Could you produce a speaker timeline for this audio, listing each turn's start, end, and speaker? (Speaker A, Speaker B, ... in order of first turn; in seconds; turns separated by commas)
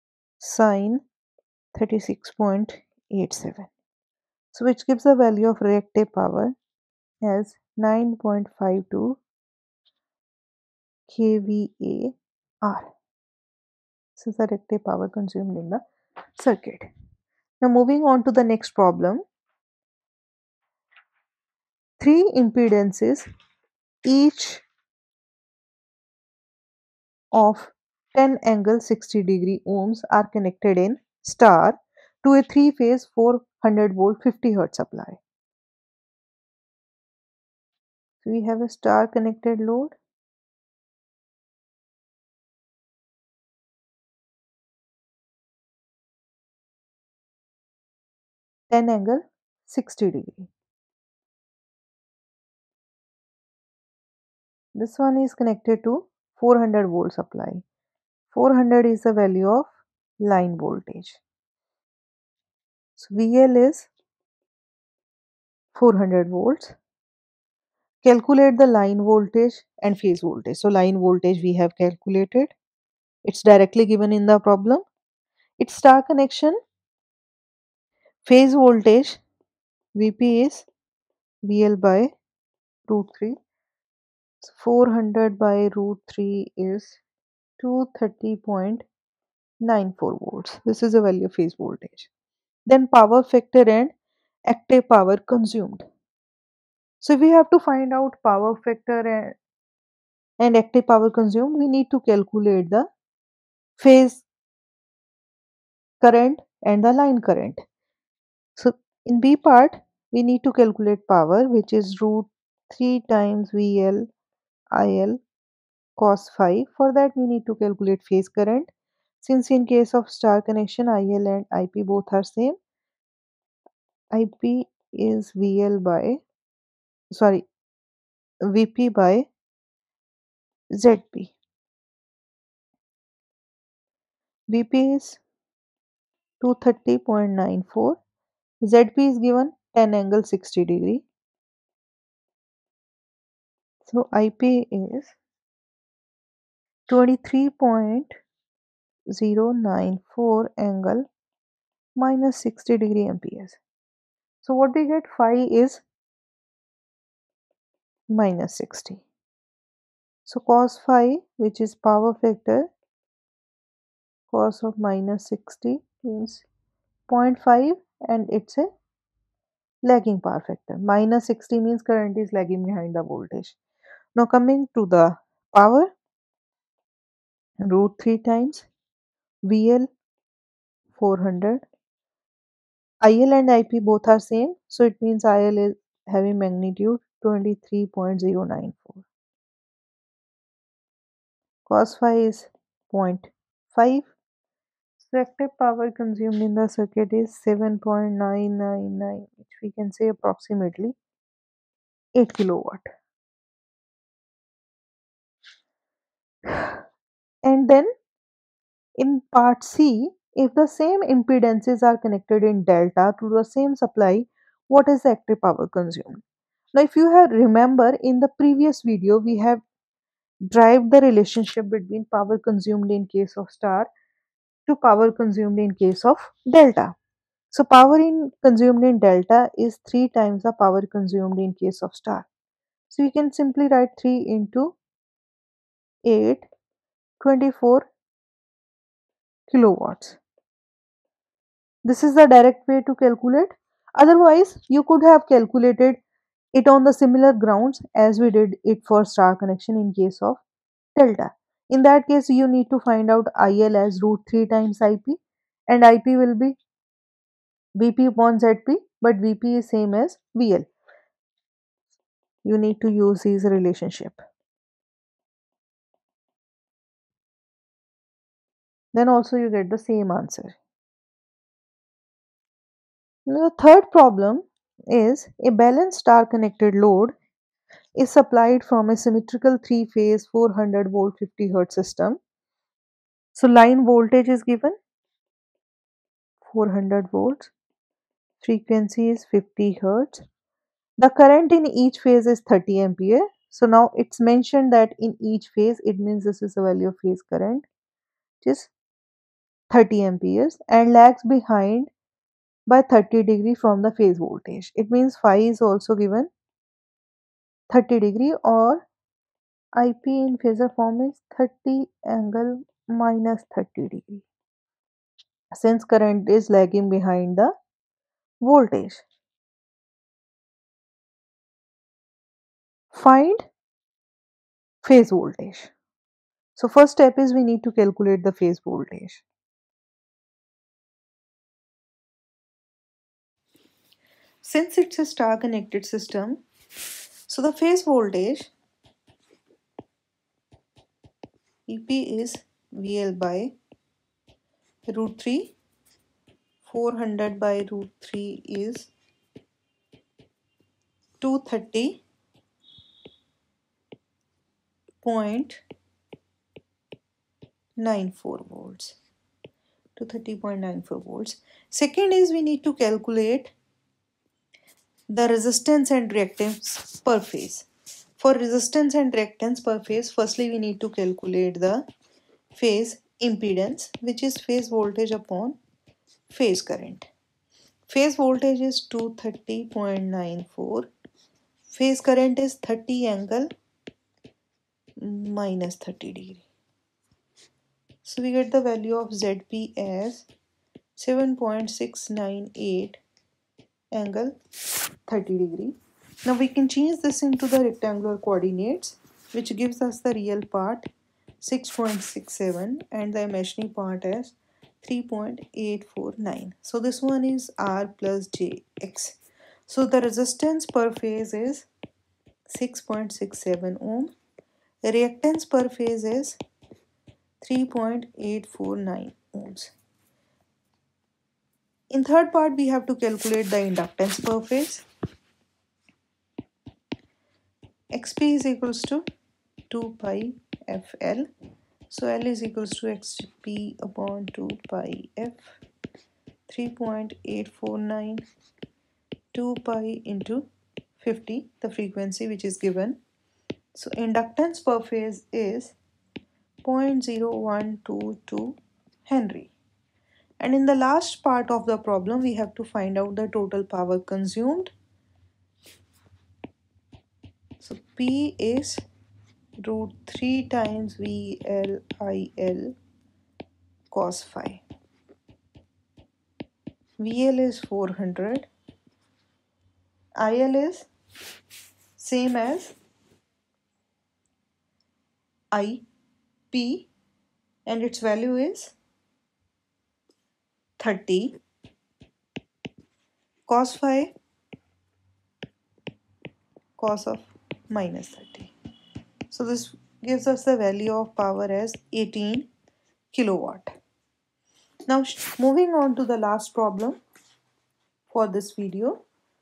Speaker A: 0.4-1.0, Speaker A: 1.7-3.7, Speaker A: 4.5-6.5, Speaker A: 7.2-9.2, Speaker A: 11.1-12.9, Speaker A: 14.2-15.8, Speaker A: 16.4-16.9, Speaker A: 17.6-19.2, Speaker A: 22.0-23.2, Speaker A: 24.1-24.6, Speaker A: 27.3-35.2, Speaker A: 38.2-39.9, Speaker A: 48.7-50.5, Speaker A: 54.8-57.6, Speaker A: 58.3-61.2, Speaker A: 63.0-63.9, Speaker A: 65.7-66.8, Speaker A: 68.0-72.5, Speaker A: 73.2-74.8, Speaker A: 75.6-76.5, Speaker A: 78.2-79.2, Speaker A: 80.0-80.7, Speaker A: 81.4-82.1, Speaker A: 82.9-83.3, Speaker A: 84.4-87.0, Speaker A: 87.6-88.8, Speaker A: 89.6-92.1, Speaker A: 92.7-93.9, Speaker A: 94.5-95.8, Speaker A: 97.0-99.3, Speaker A: 100.4-102.9, Speaker A: 103.8-104.2, Speaker A: 106.0-107.6, Speaker A: 108.6-114.1, Speaker A: 114.7-115.2, Speaker A: 116.0-118.7, Speaker A: 119.2-122.5, Speaker A: 124.1-126.2, Speaker A: 127.1-127.4, Speaker A: 128.5-129.3, Speaker A: 130.8-131.3, Speaker A: 134.5-135.2, Speaker A: 136.4-138.0, Speaker A: 138.6-141.0, Speaker A: 143.8-145.2, Speaker A: 146.9-148.1, Speaker A: 149.1-151.0, Speaker A: 151.9-153.6, Speaker A: 154.4-155.8, Speaker A: 158.1-159.0, Speaker A: 160.2-162.7, Speaker A: 164.3-166.4, Speaker A: 167.1-168.7, Speaker A: 169.8-173.6, Speaker A: 174.2-175.9, Speaker A: 177.7-178.7, Speaker A: 179.4-179.9, Speaker A: 180.9-181.6, Speaker A: 183.0-189.1, Speaker A: 191.7-194.1, Speaker A: 195.0-200.9, Speaker A: 202.1-202.9, Speaker A: 206.5-206.8, Speaker A: 207.4-207.9, Speaker A: 209.0-216.2, Speaker A: 216.7-219.6, Speaker A: 220.5-223.9, Speaker A: 224.7-226.9, Speaker A: 227.5-232.3, Speaker A: 232.9-234.8, Speaker A: 236.0-236.4, Speaker A: 237.2-237.9, Speaker A: 239.5-240.2, Speaker A: 241.8-246.0, Speaker A: 246.5-250.4, Speaker A: 250.9-256.6, Speaker A: 257.8-260.7, Speaker A: 262.4-264.2, Speaker A: 268.9-270.6, Speaker A: 273.3-277.1, Speaker A: 278.0-282.2, Speaker A: 283.3-284.8, Speaker A: 286.4-287.5, Speaker A: 288.4-290.2, Speaker A: 291.0-297.6, Speaker A: 298.4-298.7, Speaker A: 299.7-301.9, Speaker A: 302.7-306.3, Speaker A: 307.7-308.9, Speaker A: 309.8-314.3, Speaker A: 315.5-317.5, Speaker A: 318.4-319.0, Speaker A: 322.9-323.5, Speaker A: 324.8-325.7, Speaker A: 326.5-329.2, Speaker A: 334.4-336.4, Speaker A: 337.3-338.5, Speaker A: 341.7-343.5, Speaker A: 344.9-345.5, Speaker A: 346.6-348.9, Speaker A: 351.2-352.0, Speaker A: 355.0-355.6, Speaker A: 357.8-359.0, Speaker A: 359.9-363.5, Speaker A: 365.1-367.7, Speaker A: 368.2-371.8, Speaker A: 372.5-375.6, Speaker A: 376.3-377.1, Speaker A: 377.9-380.9, Speaker A: 381.7-383.5, Speaker A: 385.0-386.4, Speaker A: 388.0-390.3, Speaker A: 390.9-393.0, Speaker A: 393.9-394.3, Speaker A: 395.1-400.9, Speaker A: 401.4-411.7, Speaker A: 412.5-414.1, Speaker A: 414.8-416.4, Speaker A: 417.4-419.7, Speaker A: 421.9-424.9, Speaker A: 427.9-429.0, Speaker A: 429.7-431.3, Speaker A: 431.9-435.6, Speaker A: 436.5-438.2, Speaker A: 439.3-440.4, Speaker A: 441.0-443.0, Speaker A: 443.7-445.7, Speaker A: 446.6-449.5, Speaker A: 450.4-454.7, Speaker A: 457.6-458.8, Speaker A: 459.6-462.7, Speaker A: 463.9-464.6, Speaker A: 467.0-468.5, Speaker A: 470.2-470.9, Speaker A: 472.0-472.7, Speaker A: 475.5-475.8, Speaker A: 476.5-476.9, Speaker A: 477.6-478.8, Speaker A: 480.8-481.4, Speaker A: 483.5-484.1, Speaker A: 486.8-488.5, Speaker A: 489.3-492.5, Speaker A: 493.1-493.7, Speaker A: 494.9-497.0, Speaker A: 498.1-499.0